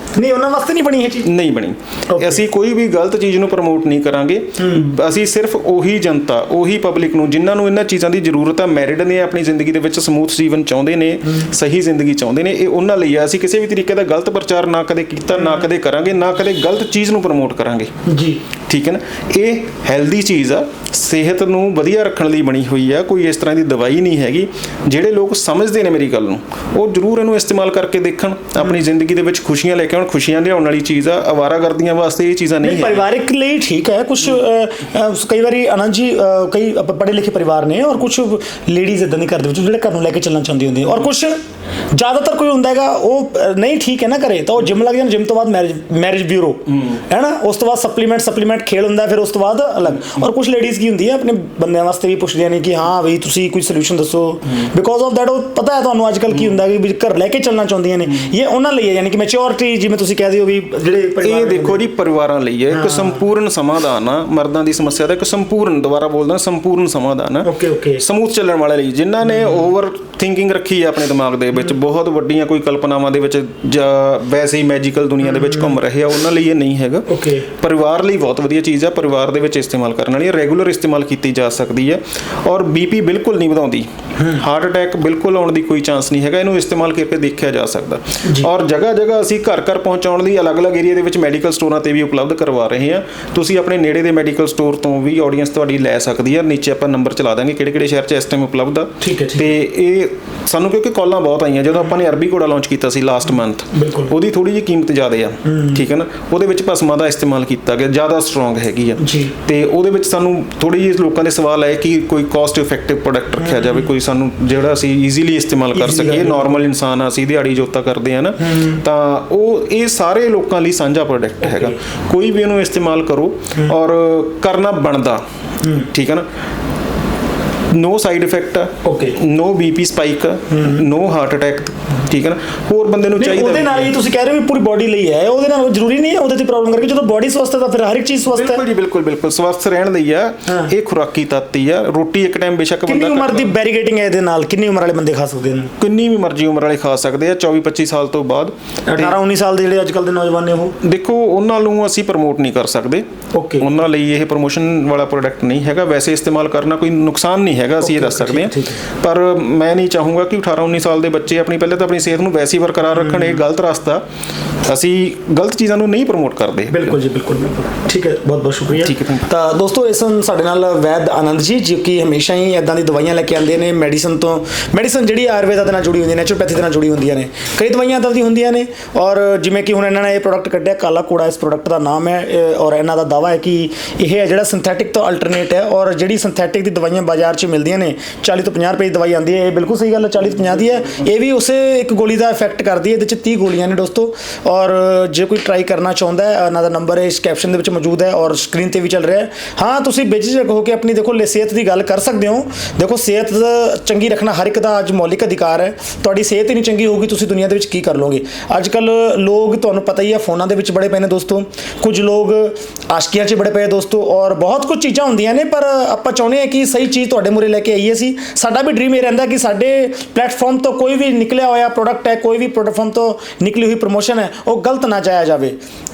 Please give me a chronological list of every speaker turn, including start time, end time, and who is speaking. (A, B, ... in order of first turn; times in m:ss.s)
0:00.2-0:01.3 A
0:01.2-0:17.9 B
0:02.1-0:02.4 A
0:04.6-0:04.9 A
0:18.1-0:18.4 A
0:18.7-0:33.0 B
0:32.6-0:41.4 A
0:41.9-1:01.8 A
1:01.2-2:05.2 B
1:02.7-1:03.2 A
1:07.4-1:08.0 A
1:15.4-1:15.7 A
1:17.1-1:17.5 A
1:39.0-1:39.6 A
1:43.7-1:44.1 A
1:45.5-1:45.8 A
1:49.0-1:49.3 A
1:53.4-1:53.8 A
1:55.7-1:56.6 A
1:58.4-1:58.8 A
2:01.4-2:01.8 A
2:05.8-2:06.3 B
2:07.7-2:13.9 B
2:08.8-2:09.2 A
2:10.5-2:10.8 A
2:13.2-2:18.6 A
2:18.3-2:23.5 B
2:22.9-2:25.7 A
2:25.8-2:29.2 B
2:28.9-2:30.8 A
2:30.8-2:33.0 B
2:33.3-2:33.7 A
2:33.6-2:44.0 B
2:37.8-2:38.8 A
2:44.6-2:47.0 B
2:46.7-3:45.6 A
2:48.8-2:49.3 B